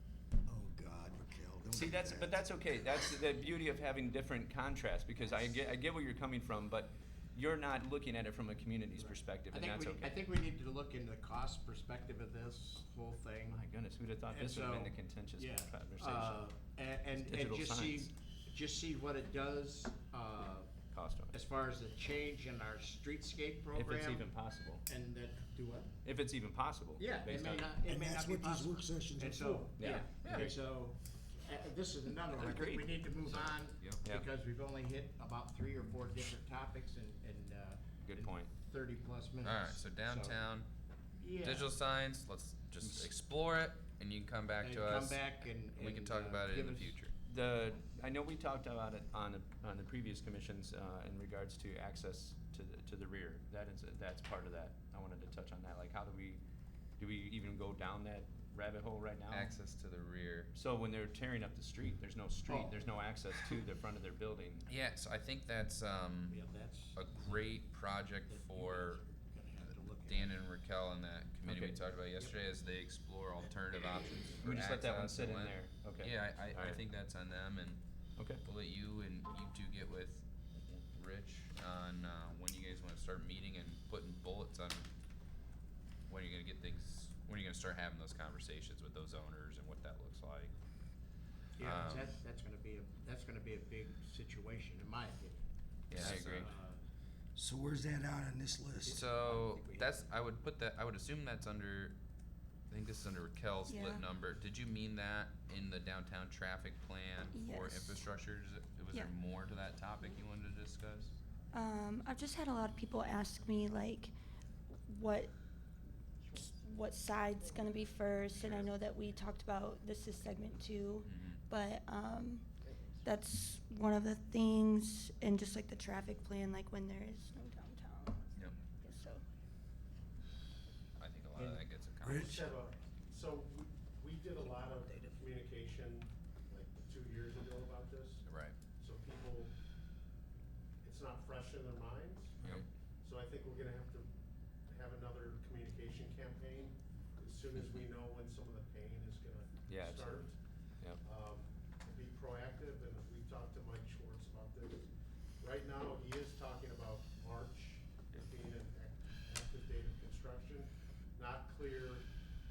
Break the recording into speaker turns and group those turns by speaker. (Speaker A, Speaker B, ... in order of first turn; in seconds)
Speaker A: 0.5-2.4, 27.9-29.9, 97.4-99.0, 132.0-132.4
Speaker B: 1.7-10.2, 13.5-16.5, 17.2-18.1, 20.9-21.4, 23.7-24.8, 26.0-27.7, 29.8-30.4, 32.3-32.9, 38.0-38.5, 47.2-56.4, 57.0-59.5, 60.5-64.7, 71.5-71.8, 74.4-76.8, 78.2-78.4, 142.4-142.7, 149.7-150.3
Speaker C: 9.0-13.6, 14.3-20.8, 21.3-24.3, 24.9-25.9, 27.0-40.4, 41.2-41.7, 44.6-47.0, 62.5-62.7, 66.3-67.5, 68.3-70.3, 91.6-95.5, 96.0-96.8, 98.8-100.0
Speaker D: 30.2-30.5, 33.1-34.1, 39.4-40.7, 41.4-47.1, 59.3-60.5, 64.7-69.0, 70.0-77.8, 78.4-84.9, 86.1-90.5, 91.6-92.2, 95.9-96.5, 98.9-102.0, 102.7-111.1, 118.3-118.7, 121.0-121.4, 128.3-128.7, 131.0-132.4, 138.3-138.6, 142.4-142.7
Speaker E: 103.7-104.1, 107.3-108.0, 111.5-114.1, 114.9-115.3, 116.3-122.5, 123.0-129.2
Speaker F: 132.1-138.3, 138.8-139.5, 140.8-142.4, 143.0-144.1, 144.7-150.4, 151.0-154.9, 155.4-162.1